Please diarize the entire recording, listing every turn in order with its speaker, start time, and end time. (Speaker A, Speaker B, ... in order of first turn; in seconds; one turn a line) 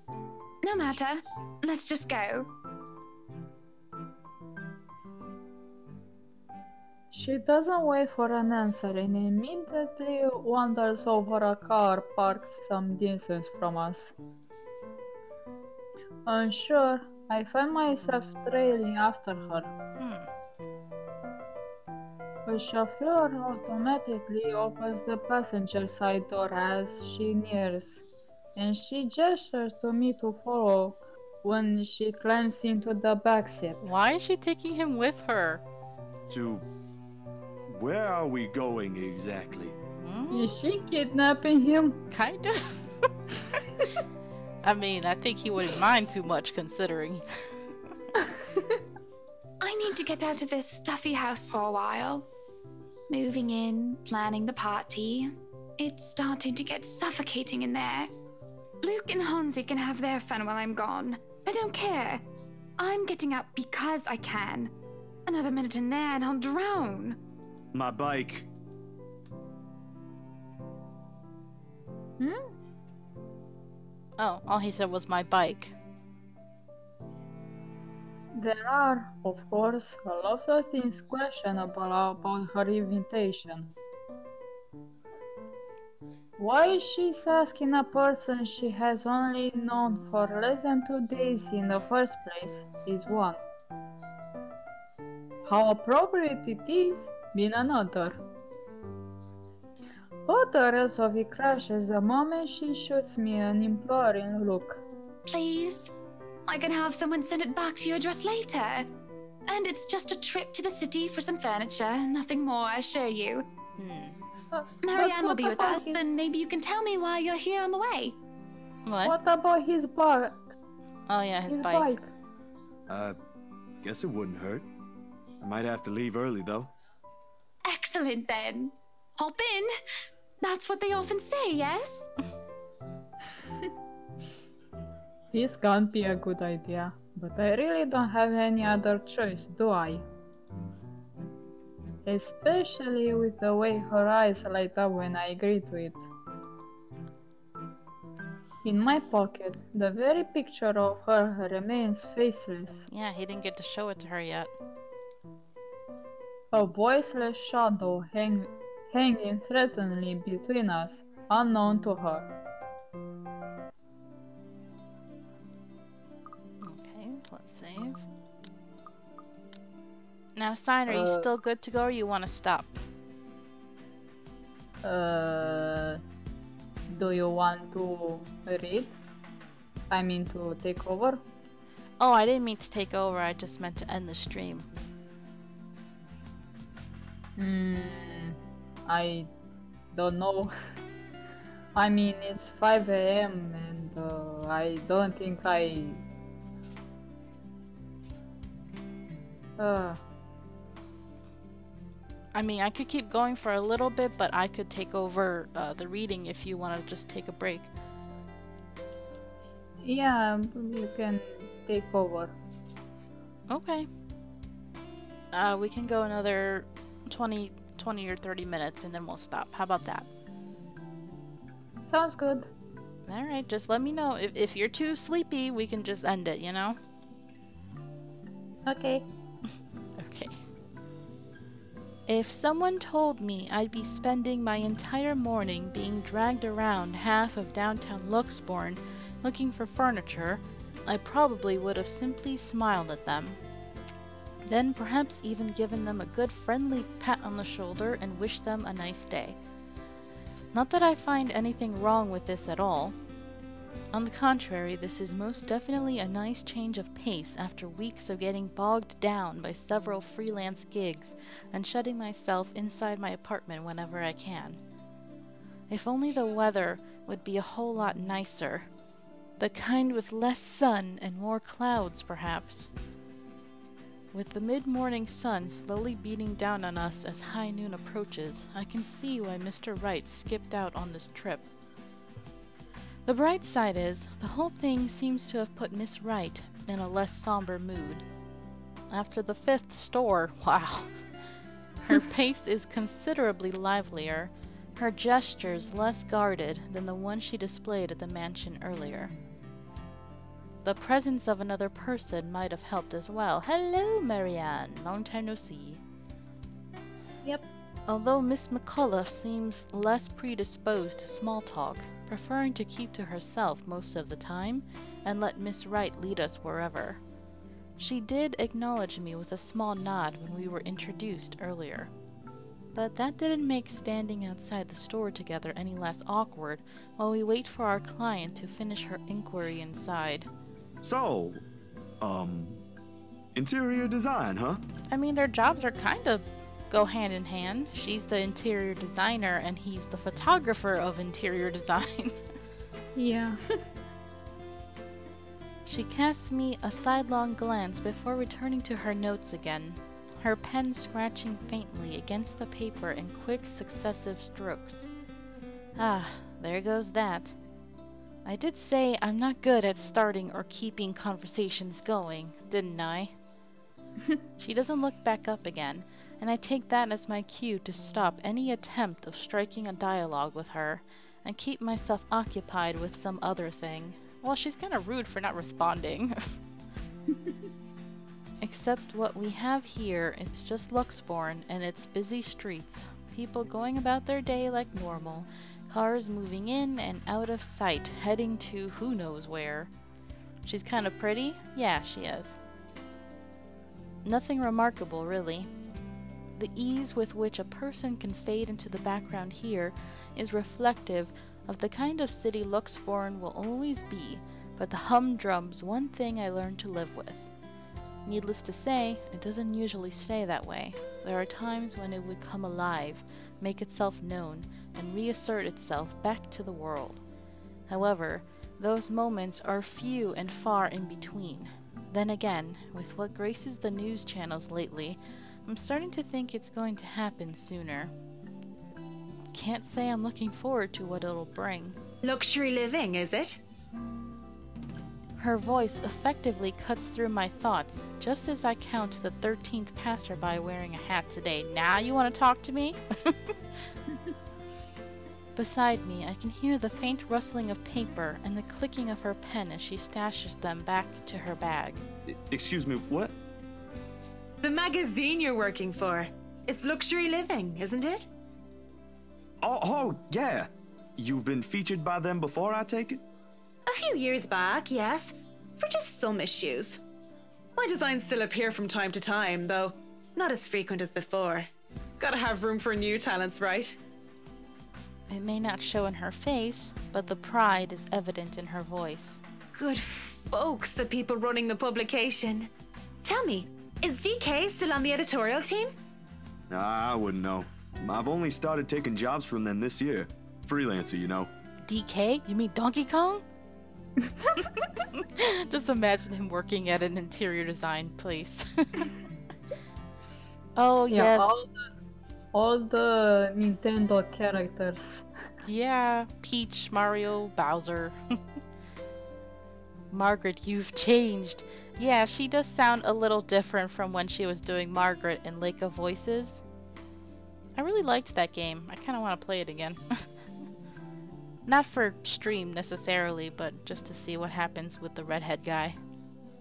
Speaker A: 0.6-2.5
Speaker B: 7.1-14.1
Speaker B: 16.2-19.7
Speaker C: 20.0-20.3
Speaker B: 22.4-28.0
Speaker B: 28.6-33.8
Speaker C: 33.8-35.6
Speaker D: 36.3-36.6
Speaker D: 37.7-39.7
Speaker C: 40.0-40.5
Speaker B: 40.3-42.0
Speaker C: 42.1-42.9
Speaker C: 44.6-47.5
Speaker A: 49.6-52.3
Speaker A: 53.1-58.1
Speaker A: 58.8-62.2
Speaker A: 62.8-64.7
Speaker A: 65.2-67.2
Speaker D: 67.7-68.5
Speaker B: 72.2-72.5
Speaker C: 74.2-75.7
Speaker B: 78.3-83.7
Speaker B: 86.4-93.4
Speaker B: 95.4-98.2
Speaker B: 100.3-104.8
Speaker A: 105.3-105.9
Speaker A: 106.5-108.9
Speaker A: 109.5-113.5
Speaker C: 113.8-114.2
Speaker B: 114.5-116.0
Speaker A: 114.8-118.2
Speaker C: 118.8-119.1
Speaker B: 119.0-120.4
Speaker C: 121.1-122.0
Speaker B: 121.5-122.0
Speaker D: 122.9-123.2
Speaker D: 123.8-124.6
Speaker D: 125.4-126.7
Speaker A: 127.6-129.7
Speaker A: 130.4-132.1
Speaker B: 135.3-140.1
Speaker B: 142.1-146.1
Speaker B: 148.6-152.8
Speaker C: 152.9-154.5
Speaker B: 156.5-162.3
Speaker C: 166.6-168.0
Speaker C: 170.3-172.8
Speaker B: 170.9-171.3
Speaker B: 174.8-176.0
Speaker B: 176.9-178.9
Speaker B: 179.9-181.2
Speaker C: 182.0-184.7
Speaker B: 187.4-189.3
Speaker B: 189.9-190.5
Speaker B: 191.7-196.0
Speaker B: 199.6-200.0
Speaker C: 202.3-207.7
Speaker B: 209.8-212.3
Speaker C: 213.5-213.9
Speaker C: 215.3-220.1
Speaker B: 221.9-222.5
Speaker C: 223.1-226.8
Speaker B: 228.7-229.1
Speaker C: 230.0-230.4
Speaker C: 232.1-243.4
Speaker C: 244.4-249.3
Speaker C: 250.5-252.9
Speaker C: 253.9-264.6
Speaker C: 265.7-268.7
Speaker C: 269.4-272.7
Speaker C: 274.1-281.5
Speaker C: 283.1-288.0
Speaker C: 288.9-290.9
Speaker C: 291.9-299.1
Speaker C: 300.6-305.8
Speaker C: 307.9-317.0
Speaker C: 317.8-321.9
Speaker C: 322.7-330.3
Speaker D: 330.8-331.4
Speaker D: 332.0-332.6
Speaker D: 333.3-334.6
Speaker C: 334.9-342.2
Speaker B: 342.9-343.6
Speaker C: 345.6-354.9
Speaker C: 355.8-357.4
Speaker C: 358.2-363.1
Speaker C: 364.4-376.4
Speaker C: 378.4-389.7
Speaker C: 390.4-392.4
Speaker C: 394.0-395.5
Speaker C: 396.4-407.2
Speaker C: 408.1-417.0
Speaker C: 417.7-427.9
Speaker C: 429.3-431.8
Speaker E: 432.0-433.4
Speaker C: 435.2-443.3
Speaker C: 445.4-451.8
Speaker D: 452.1-453.1
Speaker E: 454.4-458.1
Speaker D: 459.4-463.0
Speaker E: 463.6-466.8
Speaker E: 467.6-471.5
Speaker E: 472.0-473.8
Speaker C: 475.1-479.2
Speaker E: 479.5-482.5
Speaker E: 483.0-485.7
Speaker D: 486.5-491.3
Speaker C: 491.7-493.2
Speaker B: 494.2-494.4
Speaker C: 494.9-498.9
Speaker C: 500.6-501.4
Speaker B: 500.9-501.5
Speaker B: 502.3-505.1
Speaker C: 505.4-508.2
Speaker C: 509.9-516.4
Speaker C: 517.6-520.0
Speaker C: 521.5-525.8